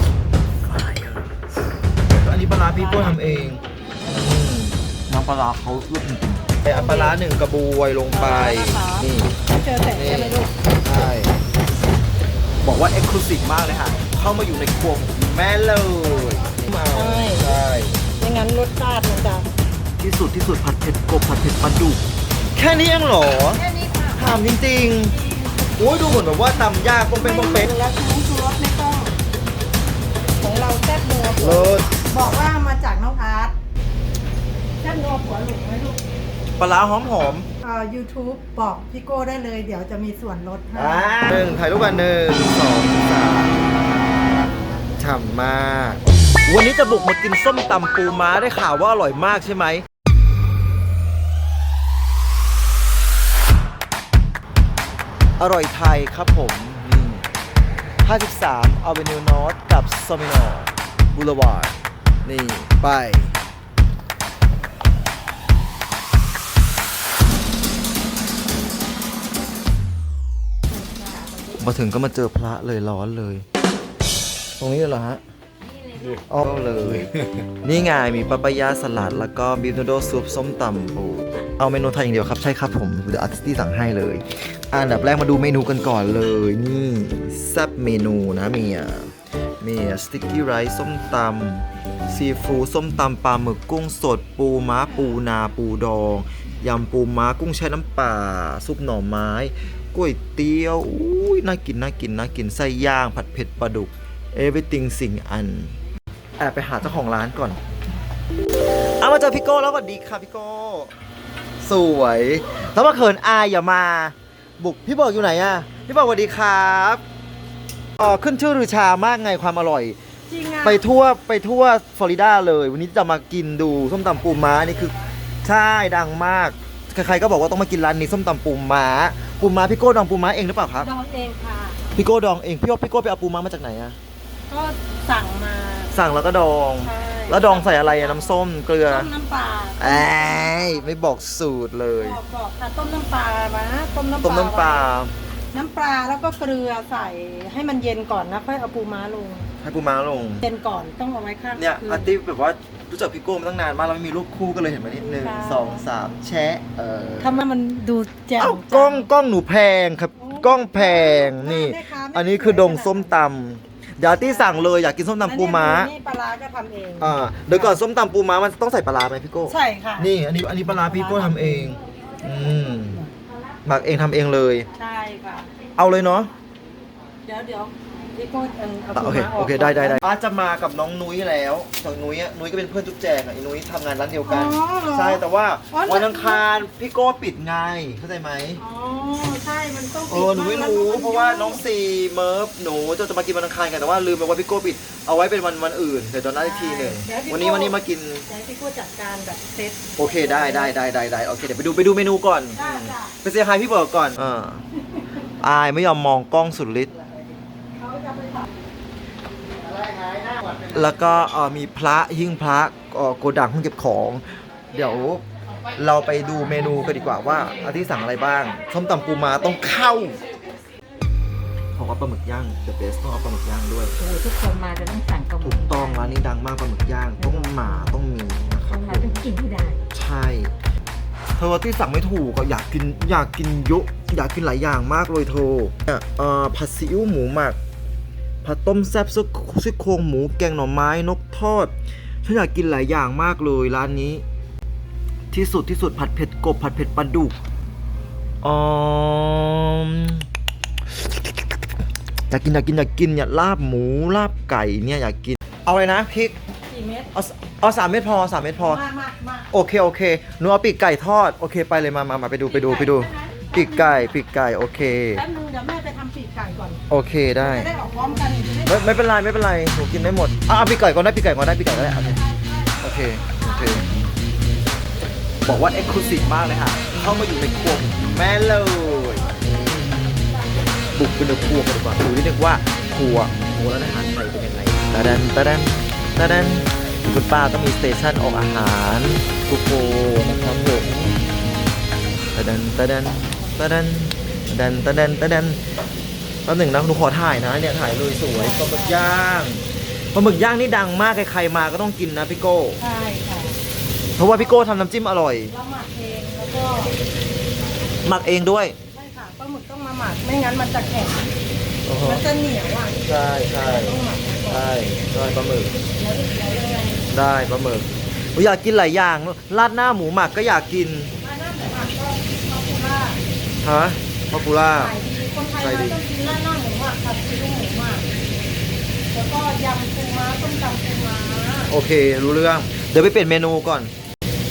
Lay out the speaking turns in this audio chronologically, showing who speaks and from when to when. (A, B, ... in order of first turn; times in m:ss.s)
0:00.6-0:01.3 A
0:02.1-0:11.3 A
0:02.7-0:03.4 B
0:06.6-0:07.2 B
0:08.1-0:10.5 B
0:12.6-0:18.0 A
0:16.9-0:17.5 B
0:18.2-0:19.5 B
0:20.0-0:22.0 A
0:22.5-0:23.6 A
0:23.5-0:24.3 B
0:24.1-0:25.1 A
0:25.1-0:25.6 B
0:25.8-0:27.7 A
0:27.1-0:29.2 B
0:30.4-0:33.5 B
0:31.4-0:32.1 A
0:34.8-0:36.0 B
0:36.6-0:37.5 A
0:37.6-0:41.2 B
0:40.7-0:43.7 A
0:45.0-0:49.8 A
0:55.4-0:57.2 A
0:58.0-1:03.4 A
1:11.5-1:13.4 A
1:14.6-1:15.2 A
1:16.2-1:17.1 A
1:17.6-1:45.7 A
1:46.4-1:47.6 A
1:49.0-1:50.9 A
1:51.6-1:57.0 A
1:58.0-2:00.0 A
2:00.3-2:00.8 B
2:00.6-2:10.9 A
2:10.8-2:11.8 B
2:11.9-2:14.0 A
2:14.5-2:15.9 B
2:15.9-2:19.1 A
2:16.8-2:18.4 B
2:18.9-2:20.7 B
2:19.8-2:22.2 A
2:22.0-2:24.9 B
2:24.2-2:25.1 A
2:25.5-2:29.5 B
2:29.6-2:30.4 A
2:30.4-2:32.1 B
2:31.6-2:37.4 A
2:35.0-2:35.8 B
2:37.2-2:39.1 B
2:38.4-2:45.9 A
2:40.2-2:43.1 B
2:44.0-2:44.7 B
2:45.2-2:47.8 B
2:47.0-2:53.1 A
2:49.5-2:50.1 B
2:50.7-2:51.8 B
2:53.6-2:54.7 A
2:54.7-2:55.5 B
2:55.8-2:56.3 A
2:57.2-3:00.0 B
2:58.9-3:08.6 A
3:04.2-3:06.4 B
3:08.6-3:11.6 B
3:10.1-3:18.2 A
3:16.4-3:20.8 B
3:20.0-3:24.6 A
3:22.5-3:23.1 B
3:25.4-3:26.9 A
3:27.7-3:28.5 B
3:30.7-3:35.2 A
3:35.7-3:40.2 A
3:41.7-3:44.0 A
3:44.0-3:45.8 C
3:45.4-3:49.3 A
3:49.0-3:49.6 C
3:49.9-3:50.5 A
3:51.4-3:57.6 A
3:58.4-4:01.7 A
4:02.2-4:04.2 A
4:05.3-4:07.3 A
4:08.4-4:10.2 A
4:10.9-4:11.6 A
4:12.3-4:16.4 A
4:16.7-4:17.1 B
4:17.1-4:18.8 A
4:18.6-4:19.5 B
4:19.5-4:25.2 A
4:22.5-4:24.1 B
4:25.1-4:26.8 B
4:26.9-4:27.7 A
4:27.4-4:28.8 B
4:28.7-4:32.2 A
4:32.8-4:33.9 A
4:35.4-4:39.5 A
4:40.9-4:51.2 A
4:52.3-4:55.6 A
4:56.4-5:02.8 A
4:58.3-4:59.0 B
5:02.8-5:03.6 B
5:04.2-5:05.5 A
5:05.5-5:06.9 B
5:08.0-5:08.8 A
5:08.9-5:11.3 B
5:11.8-5:12.2 A
5:12.0-5:14.6 B
5:13.0-5:14.0 A
5:14.5-5:15.7 A
5:15.9-5:17.0 B
5:17.1-5:21.1 A
5:21.2-5:23.2 B
5:23.6-5:24.9 A
5:24.8-5:28.1 B
5:25.6-5:26.0 A
5:29.1-5:31.7 B
5:31.7-5:33.9 A